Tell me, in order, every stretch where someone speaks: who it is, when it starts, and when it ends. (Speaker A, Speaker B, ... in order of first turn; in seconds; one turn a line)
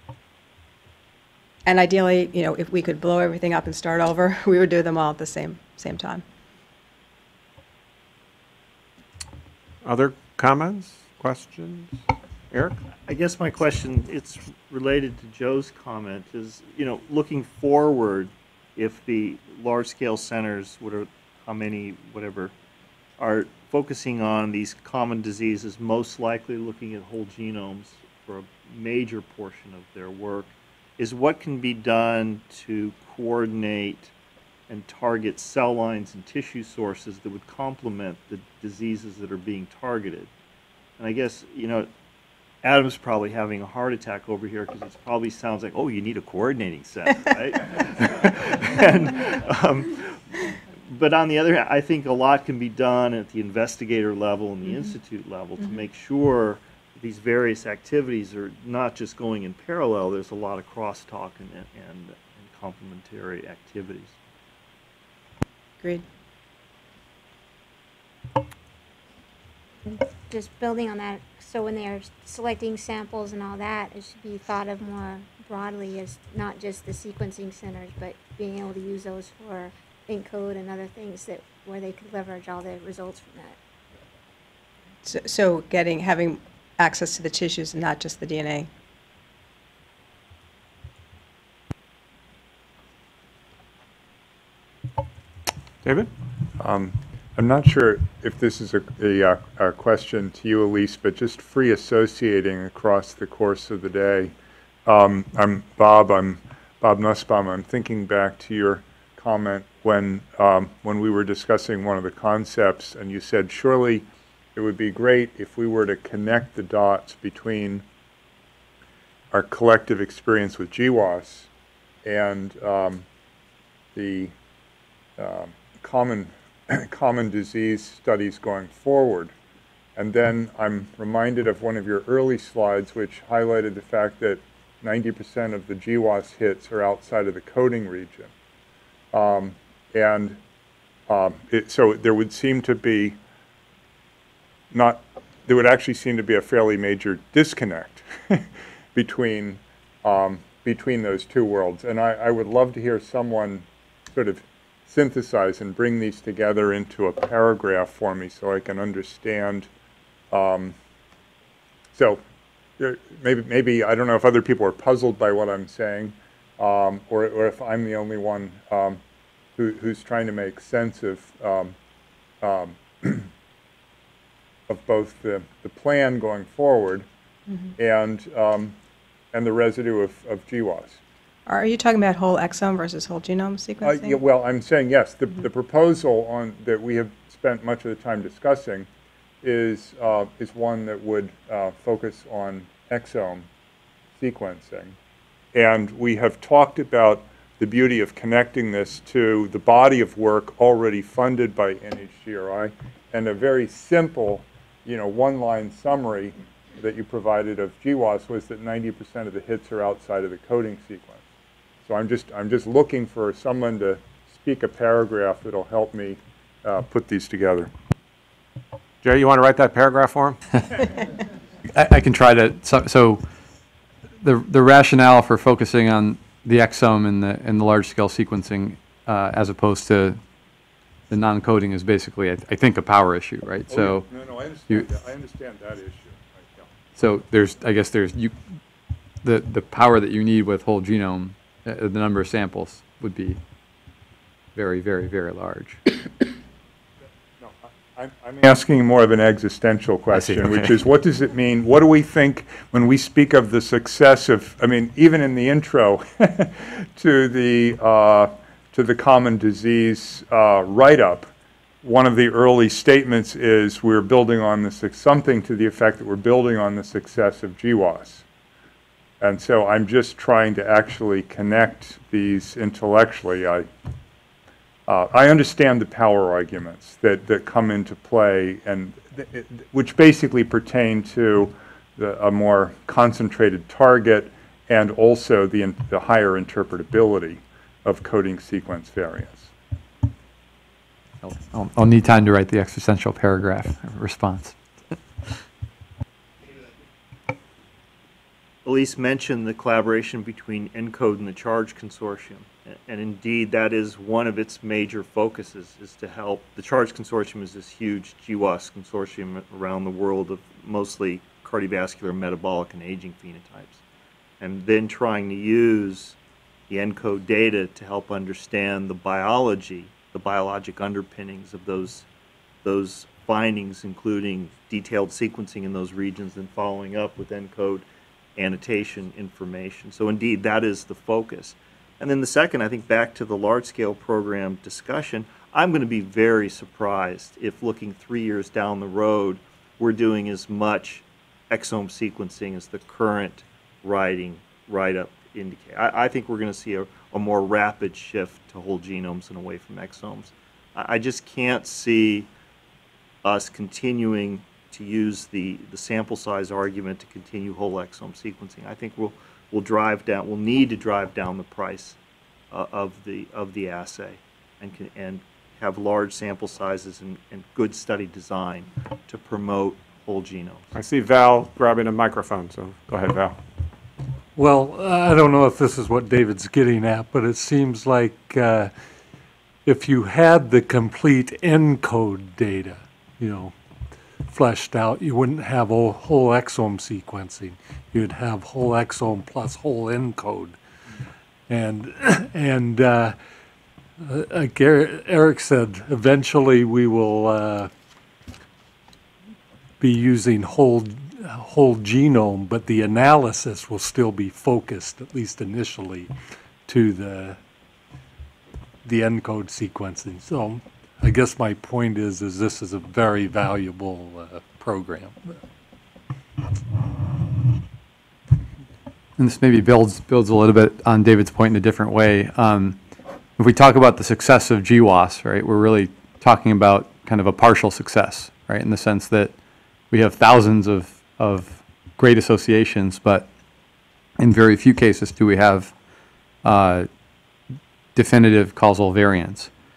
Speaker A: 1.6-6.2
Speaker B: 9.8-12.0
Speaker B: 12.5-12.8
Speaker C: 13.1-22.5
Speaker C: 23.2-34.1
Speaker C: 34.7-40.3
Speaker C: 41.0-41.9
Speaker C: 42.6-64.2
Speaker D: 69.8-83.6
Speaker A: 85.0-88.7
Speaker B: 95.8-96.1
Speaker E: 96.6-104.3
Speaker E: 104.8-117.8
Speaker E: 119.3-121.5
Speaker E: 122.0-123.0
Speaker E: 123.9-124.3
Speaker E: 125.2-129.3
Speaker E: 129.9-138.3
Speaker E: 139.1-140.4
Speaker E: 141.1-143.2
Speaker E: 144.7-159.7
Speaker E: 160.3-160.8
Speaker E: 161.9-162.2
Speaker E: 162.8-169.0
Speaker E: 169.6-171.7
Speaker E: 172.4-173.3
Speaker E: 174.7-177.1
Speaker E: 177.8-178.7
Speaker E: 179.3-181.0
Speaker A: 181.5-184.2
Speaker E: 183.8-188.9
Speaker E: 189.4-193.5
Speaker E: 194.2-194.9
Speaker E: 195.5-211.2
Speaker E: 211.8-217.7
Speaker B: 219.0-220.4
Speaker F: 221.7-223.2
Speaker F: 224.2-230.2
Speaker F: 231.1-234.1
Speaker E: 233.7-236.7
Speaker F: 236.9-238.4
Speaker F: 239.2-243.4
Speaker F: 244.5-245.9
Speaker E: 247.4-261.3
Speaker E: 261.8-268.2
Speaker E: 269.2-273.7
Speaker E: 274.9-289.5
Speaker F: 291.2-294.9
Speaker C: 298.6-313.8
Speaker C: 314.4-316.2
Speaker C: 316.7-322.1
Speaker C: 322.6-352.3
Speaker C: 353.2-362.0
Speaker C: 362.5-370.7
Speaker B: 370.7-373.4
Speaker G: 374.3-378.7
Speaker G: 379.6-383.6
Speaker G: 384.2-390.6
Speaker G: 391.5-393.2
Speaker G: 394.0-397.7
Speaker G: 399.8-406.1
Speaker G: 406.7-407.4
Speaker G: 408.8-415.4
Speaker F: 419.2-422.8
Speaker F: 423.4-429.4
Speaker F: 429.9-433.3
Speaker F: 434.2-435.7
Speaker F: 436.4-436.9
Speaker F: 437.9-439.5